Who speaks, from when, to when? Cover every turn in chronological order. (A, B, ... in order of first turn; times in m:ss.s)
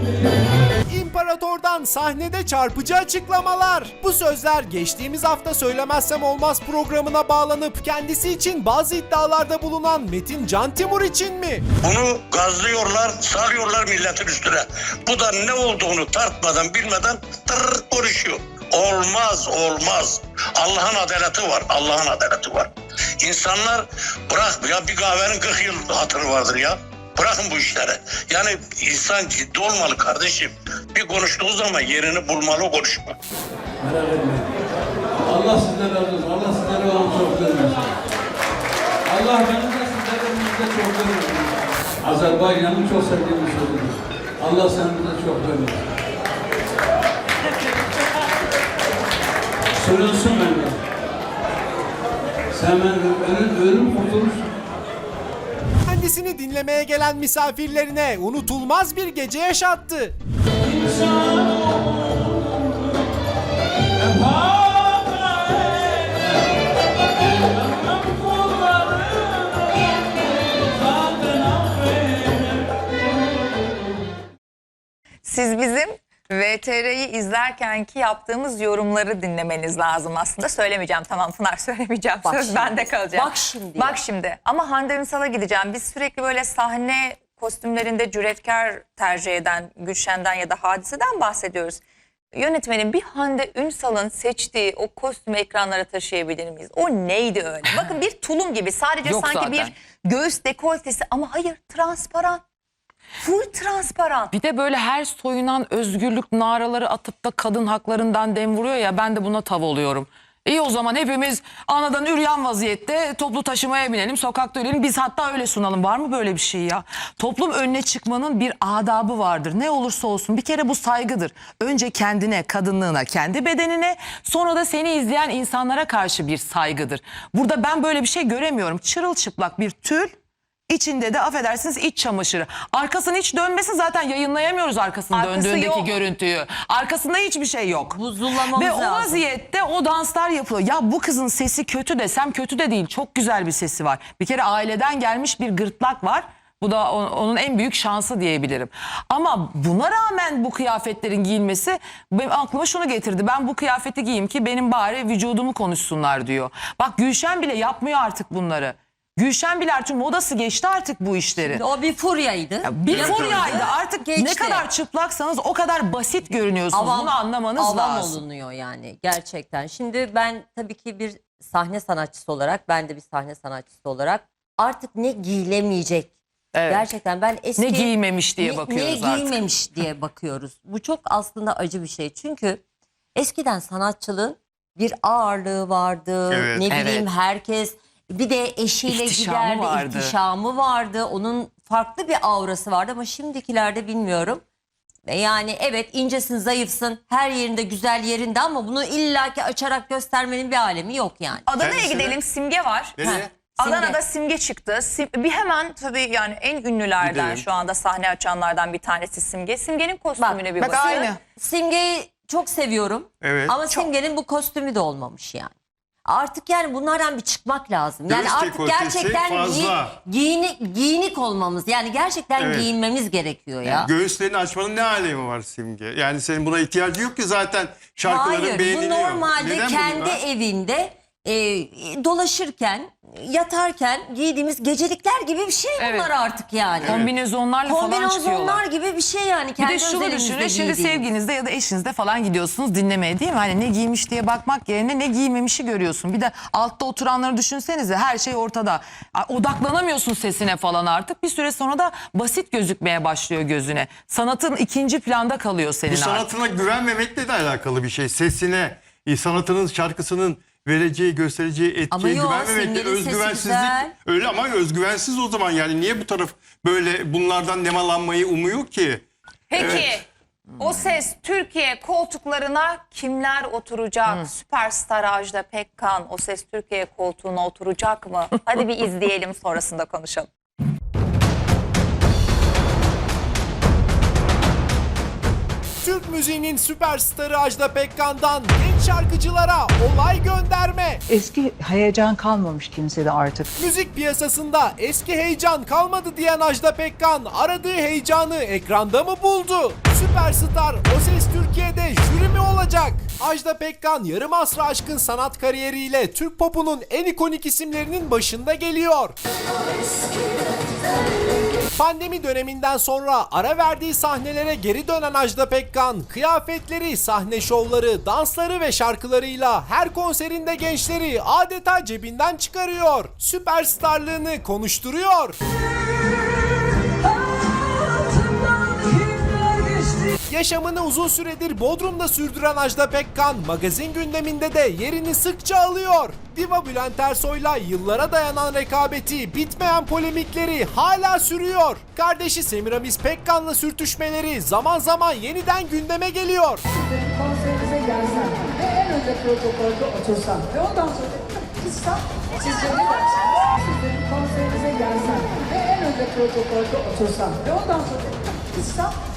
0:00.9-0:11.6 A
0:11.8-0:33.2 B
0:33.8-0:34.5 C
0:35.2-0:37.9 C
0:39.1-0:45.8 C
0:49.8-0:50.8 C
0:52.5-0:54.5 C
0:55.8-1:00.2 A
1:04.1-1:05.4 C
1:07.9-1:08.9 C
1:15.2-1:31.8 D
1:22.2-1:24.0 E
1:32.3-1:42.4 D
1:39.0-1:39.7 F
1:43.2-1:44.3 D
1:44.3-2:10.1 F
2:10.7-2:18.0 F
2:15.1-2:15.9 D
2:17.8-2:19.3 E
2:18.5-2:41.6 F
2:41.4-2:44.7 E
2:42.6-2:48.2 F
2:42.8-2:43.7 G
2:46.7-2:56.1 E
2:56.5-2:56.9 F
2:56.7-3:02.6 E
2:57.6-2:59.4 F
3:03.2-3:14.4 E
3:06.3-3:06.7 G
3:06.7-3:07.1 F
3:08.9-3:10.1 F
3:15.1-3:21.5 E
3:21.5-3:31.1 D
3:21.6-3:22.2 G
3:23.0-3:23.3 G
3:23.0-3:24.0 E
3:27.0-3:27.4 G
3:30.2-3:35.5 E
3:30.6-3:31.2 F
3:33.2-3:33.7 G
3:36.1-3:43.9 E
3:38.1-3:40.0 G
3:42.4-3:42.7 G
3:43.6-3:50.2 G
3:48.0-3:57.1 E
3:55.8-3:56.1 F
3:56.8-3:57.1 G
3:56.8-3:58.6 F
3:57.6-4:01.1 E
3:59.6-4:16.2 F
4:15.9-4:30.0 G
4:21.9-4:23.9 E
4:29.5-4:30.0 D
4:30.6-4:40.3 D
4:45.8-4:51.0 A
4:51.1-4:53.5 H
4:53.6-5:09.2 A
5:11.8-5:25.4 A
5:30.3-5:46.6 A
5:47.1-5:48.5 H
5:49.8-5:50.7 H
5:54.2-5:55.3 H
5:56.7-5:57.6 H